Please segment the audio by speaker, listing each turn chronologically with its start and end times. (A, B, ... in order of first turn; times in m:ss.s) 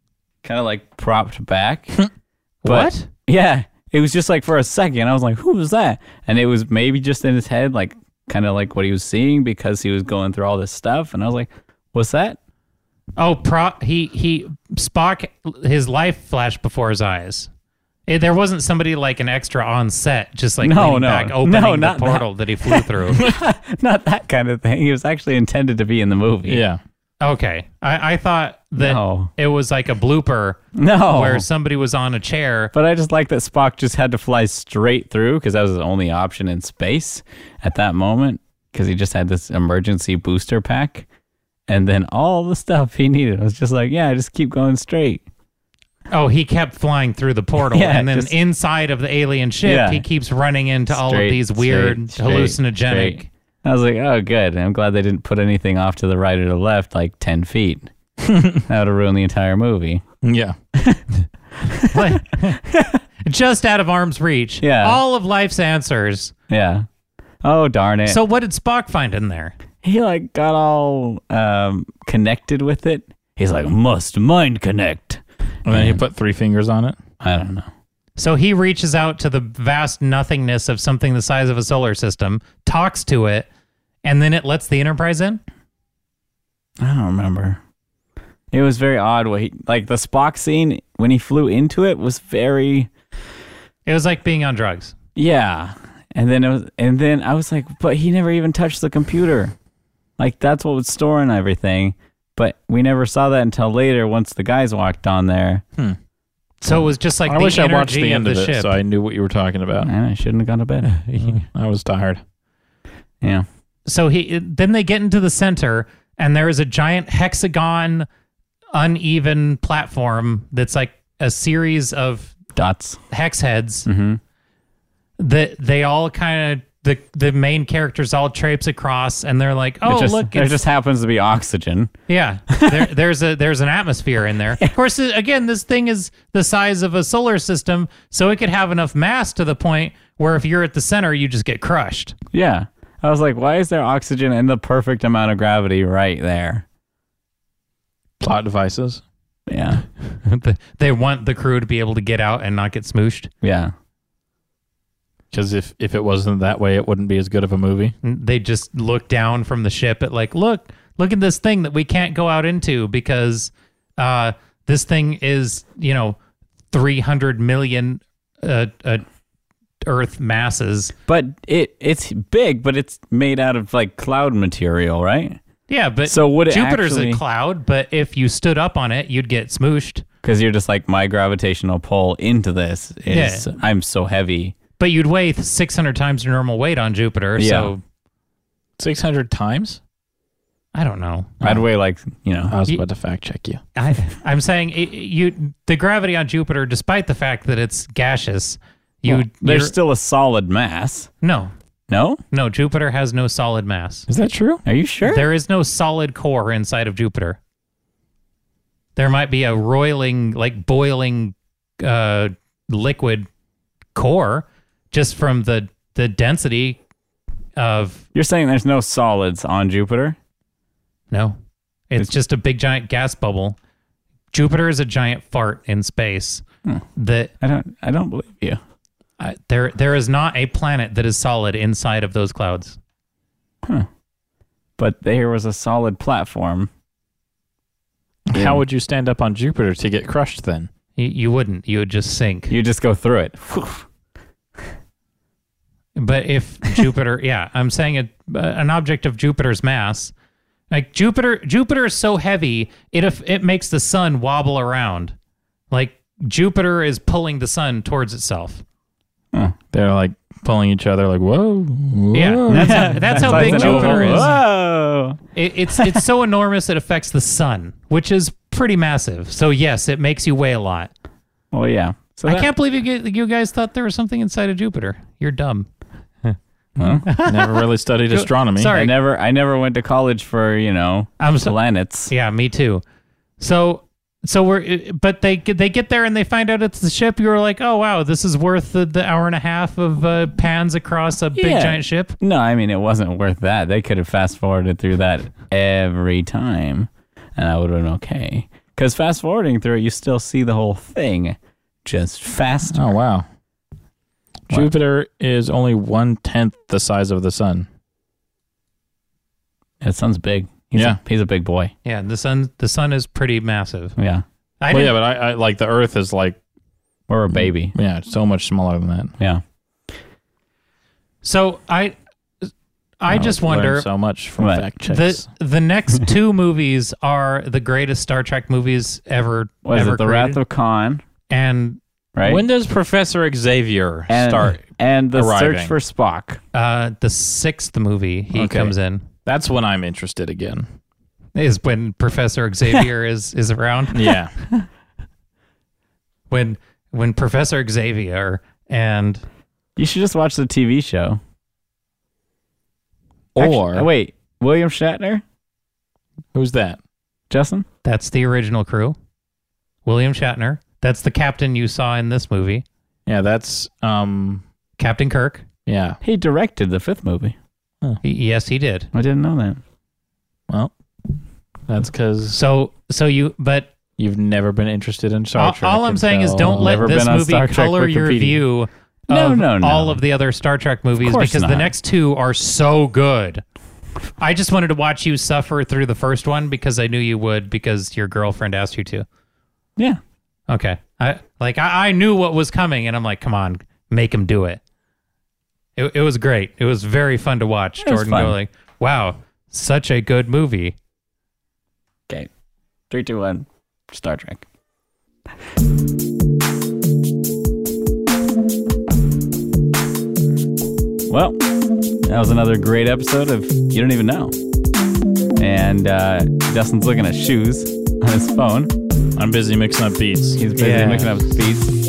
0:00.4-0:02.0 A
0:02.6-0:03.1 B
0:02.6-0:12.4 A
0:13.2-0:17.5 B
0:18.1-0:23.2 B
0:20.6-0:26.6 A
0:26.5-0:26.8 C
0:27.2-0:32.7 B
0:28.8-0:29.3 A
0:30.7-0:31.4 A
0:32.7-0:41.1 A
0:41.7-0:45.2 A
0:46.1-0:53.3 B
0:47.6-0:48.3 A
0:49.6-0:50.0 A
0:50.9-0:57.9 A
0:58.2-0:58.6 C
0:58.7-1:00.0 A
1:00.2-1:00.5 C
1:00.7-1:01.0 A
1:01.6-1:03.0 A
1:01.9-1:02.6 B
1:03.2-1:06.3 B
1:04.6-1:05.0 A
1:06.5-1:06.8 A
1:07.4-1:08.2 A
1:08.0-1:09.6 B
1:09.8-1:16.0 A
1:15.6-1:17.0 C
1:17.2-1:17.7 A
1:18.2-1:23.5 B
1:24.0-1:25.4 B
1:26.8-1:27.6 A
1:28.5-1:32.9 A
1:33.8-1:34.9 B
1:35.2-1:39.5 A
1:40.2-1:45.6 A
1:46.6-1:48.8 B
1:46.7-1:49.9 C
1:49.8-1:50.9 A
1:50.8-1:51.4 B
1:51.4-1:52.2 C
1:53.9-1:58.1 B
1:58.7-2:02.4 B
2:02.5-2:03.0 A
2:03.1-2:03.9 B
2:03.8-2:04.2 A
2:05.2-2:10.6 B
2:09.8-2:11.9 A
2:12.1-2:22.1 B
2:12.5-2:12.9 A
2:22.3-2:26.6 A
2:28.2-2:29.0 C
2:29.5-2:29.8 A
2:30.2-2:33.3 B
2:33.4-2:33.7 A
2:35.3-2:37.9 C
2:38.0-2:46.2 B
2:46.7-2:49.0 B
2:49.8-2:50.9 B
2:51.1-2:55.4 A
2:55.7-3:00.0 B
2:56.0-2:57.2 A
3:00.2-3:04.5 A
3:03.1-3:03.5 B
3:04.8-3:07.8 B
3:07.4-3:07.7 A
3:08.8-3:09.8 C
3:10.7-3:11.3 B
3:11.4-3:12.5 A
3:12.5-3:13.6 C
3:13.8-3:19.7 B
3:19.0-3:21.1 A
3:21.2-3:21.5 B
3:21.9-3:22.2 A
3:22.3-3:24.1 B
3:24.1-3:24.6 C
3:24.6-3:25.3 A
3:25.0-3:27.4 B
3:29.0-3:33.3 B
3:33.9-3:36.8 B
3:37.6-3:38.0 B
3:38.1-3:40.2 A
3:41.1-3:41.4 B
3:41.9-3:43.6 B
3:44.3-3:46.4 B
3:46.9-3:47.3 B
3:47.4-3:48.6 A
3:49.2-3:52.8 B
3:54.8-3:56.7 A
3:58.3-4:00.7 C
3:58.3-3:58.6 A
4:01.0-4:02.5 B
4:02.5-4:03.8 A
4:06.0-4:10.1 B
4:10.7-4:15.1 B
4:15.7-4:18.6 B
4:19.7-4:24.3 C
4:22.1-4:24.4 B
4:22.5-4:25.2 A
4:25.3-4:30.9 B
4:25.7-4:26.0 A
4:31.5-4:32.5 A
4:32.3-4:35.7 B
4:36.8-4:37.0 A
4:37.0-4:38.9 B
4:37.2-4:38.7 C
4:38.7-4:42.1 A
4:41.2-4:41.6 B
4:42.1-4:42.8 B
4:43.4-4:52.2 B
4:51.3-5:02.8 A
5:02.7-5:03.2 C
5:04.5-5:07.7 C
5:09.8-5:11.7 A
5:11.8-5:14.0 B
5:14.0-5:14.2 A
5:14.6-5:14.9 B
5:14.7-5:16.4 C
5:17.1-5:17.7 A
5:17.7-5:19.1 C
5:21.2-5:22.5 B
5:23.0-5:23.9 B
5:23.1-5:25.2 C
5:24.4-5:24.7 A
5:24.8-5:30.4 B
5:29.6-5:31.0 A
5:31.3-5:31.8 B
5:32.1-5:32.4 A
5:32.2-5:35.7 C
5:34.1-5:36.4 A
5:36.5-5:39.0 B
5:38.3-5:40.6 C
5:41.3-5:44.1 B
5:43.9-5:44.3 C
5:46.3-5:49.2 B
5:49.8-5:51.2 A
5:53.3-5:53.9 C
5:53.4-5:55.2 A
5:56.3-5:56.8 C
5:57.3-5:57.6 A
5:57.8-5:58.9 B
5:59.8-6:02.6 B
6:03.1-6:04.4 C
6:04.8-6:05.4 B
6:05.7-6:06.0 C
6:06.0-6:07.4 A
6:08.0-6:08.9 B
6:08.9-6:09.6 A
6:11.7-6:12.4 C
6:12.3-6:13.7 B
6:14.0-6:16.8 C
6:15.4-6:23.4 B
6:16.4-6:18.4 A
6:19.1-6:20.0 A
6:21.0-6:21.7 A
6:24.2-6:29.0 B
6:30.5-6:34.6 B
6:35.8-6:40.8 B
6:37.8-6:38.3 A
6:42.9-6:44.4 A
6:51.1-6:51.4 A
6:52.0-6:54.3 A
6:55.4-6:58.7 A
6:59.2-7:00.4 C
7:00.4-7:01.7 A
7:00.6-7:01.1 B